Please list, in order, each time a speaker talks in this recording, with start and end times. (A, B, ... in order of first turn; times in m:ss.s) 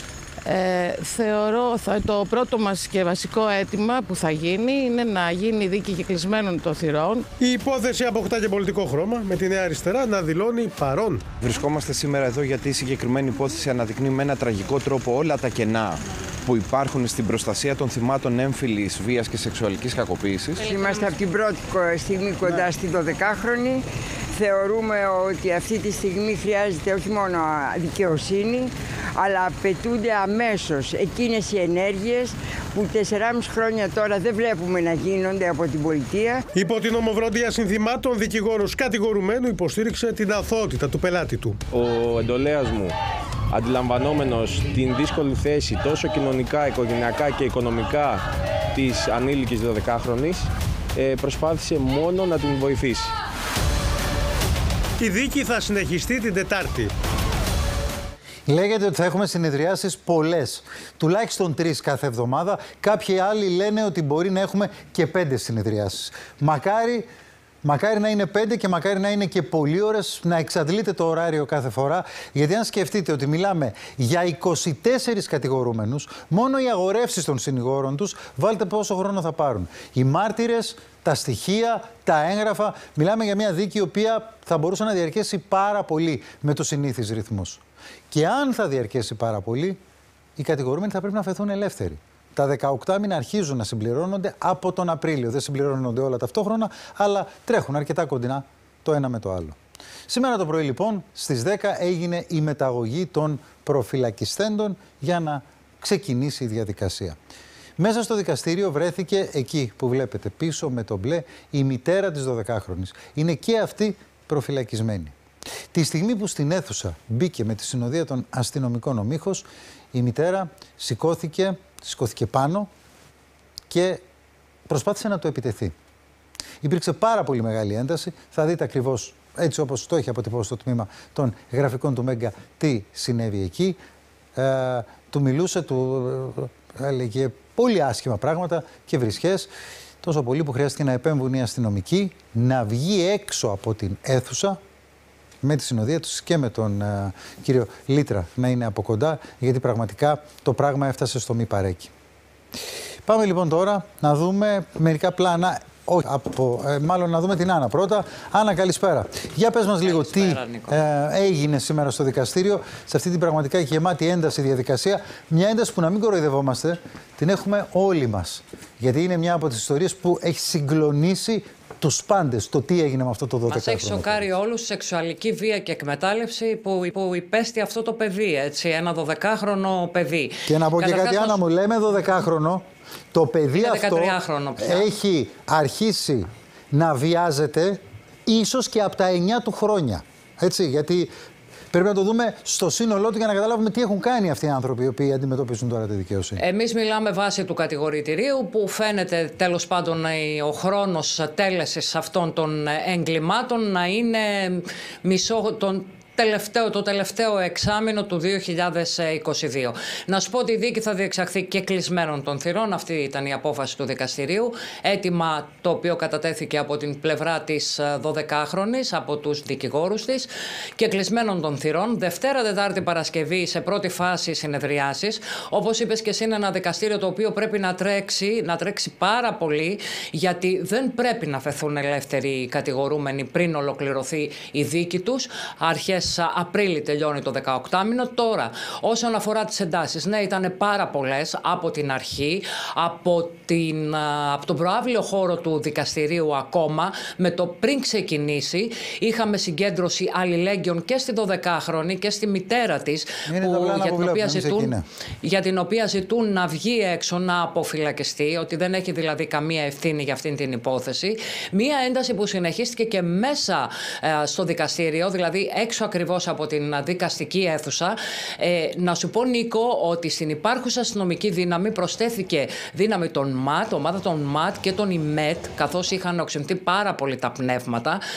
0:00.4-0:07.3 A
0:07.4-0:11.2 B
0:11.4-0:20.6 C
0:20.6-0:36.4 D
0:36.6-0:41.6 B
0:41.7-0:43.0 E
0:43.5-0:53.1 E
0:55.0-0:56.9 B
0:58.5-1:07.1 F
1:07.6-1:29.8 F
1:30.4-1:39.6 F
1:40.1-1:47.2 F
1:47.8-1:55.2 F
1:55.7-2:02.7 F
2:03.7-2:04.0 F
2:04.7-2:05.7 F
2:06.6-2:13.8 F
2:14.4-2:19.5 F
2:20.0-2:24.6 F
2:25.4-2:31.9 F
2:33.1-2:54.3 F
2:39.8-2:40.8 G
2:53.5-3:01.4 G
3:00.5-3:11.1 F
3:03.5-3:04.9 G
3:11.7-3:16.4 F
3:16.4-4:38.0 G
4:13.3-4:14.8 F